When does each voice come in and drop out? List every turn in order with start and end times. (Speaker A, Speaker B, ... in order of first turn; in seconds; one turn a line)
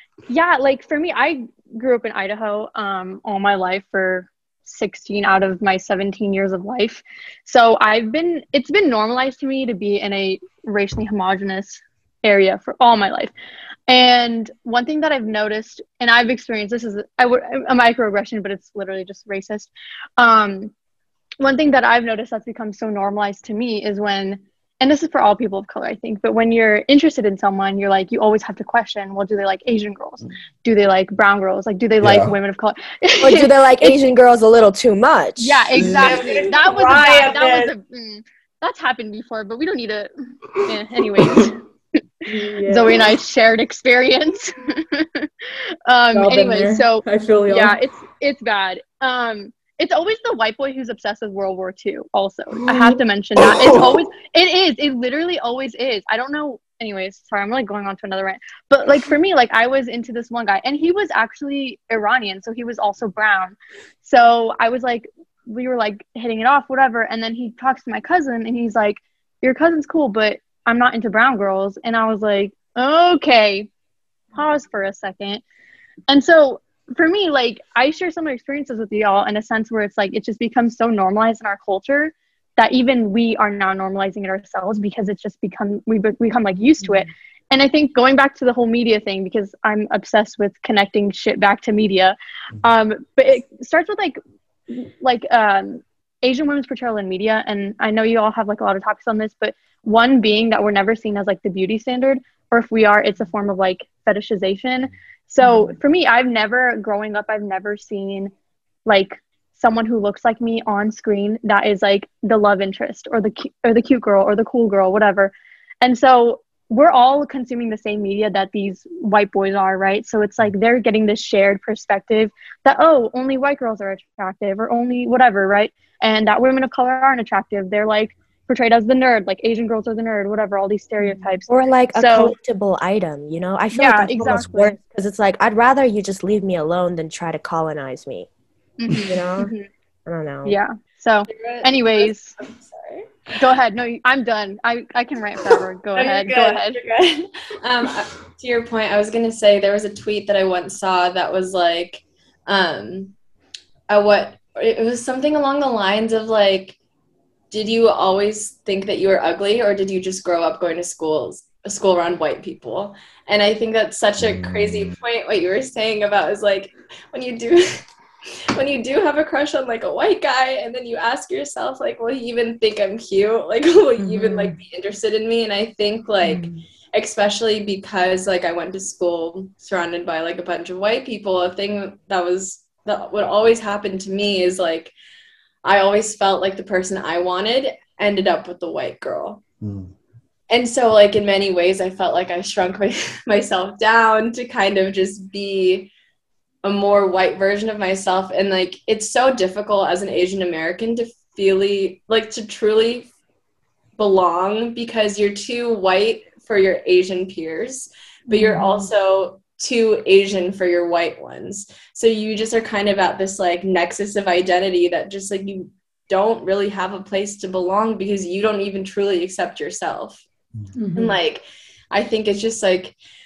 Speaker A: 0.3-13.3
Speaker A: 13.9-20.7
Speaker A: 21.4-34.0
Speaker B: 32.0-32.3
Speaker C: 33.2-35.9
Speaker A: 35.4-41.5
Speaker B: 35.8-36.2
Speaker D: 35.9-37.7
Speaker B: 41.2-41.5
Speaker A: 42.2-45.3
Speaker E: 42.2-43.0
Speaker A: 45.9-73.7
Speaker E: 46.1-47.8
Speaker B: 52.6-54.1
Speaker A: 74.3-75.4
Speaker A: 76.1-108.3
Speaker E: 86.8-87.1
Speaker E: 105.4-105.8
Speaker A: 108.8-132.3
Speaker E: 131.0-131.3
Speaker C: 131.5-138.3
Speaker A: 133.7-134.8
Speaker A: 138.8-139.7
Speaker C: 139.1-139.5
Speaker C: 140.1-140.6
Speaker A: 140.4-142.3
Speaker D: 141.3-143.1
Speaker A: 143.4-146.8
Speaker D: 145.9-153.1
Speaker D: 153.9-156.8
Speaker D: 157.5-167.8
Speaker B: 164.2-164.9
Speaker D: 168.5-184.9
Speaker E: 174.0-174.6
Speaker E: 176.2-176.6
Speaker D: 185.6-189.4
Speaker B: 189.6-189.9
Speaker D: 190.5-195.9
Speaker D: 196.6-203.1
Speaker D: 204.0-220.2
Speaker E: 208.3-208.9
Speaker E: 220.7-221.2
Speaker D: 220.9-222.9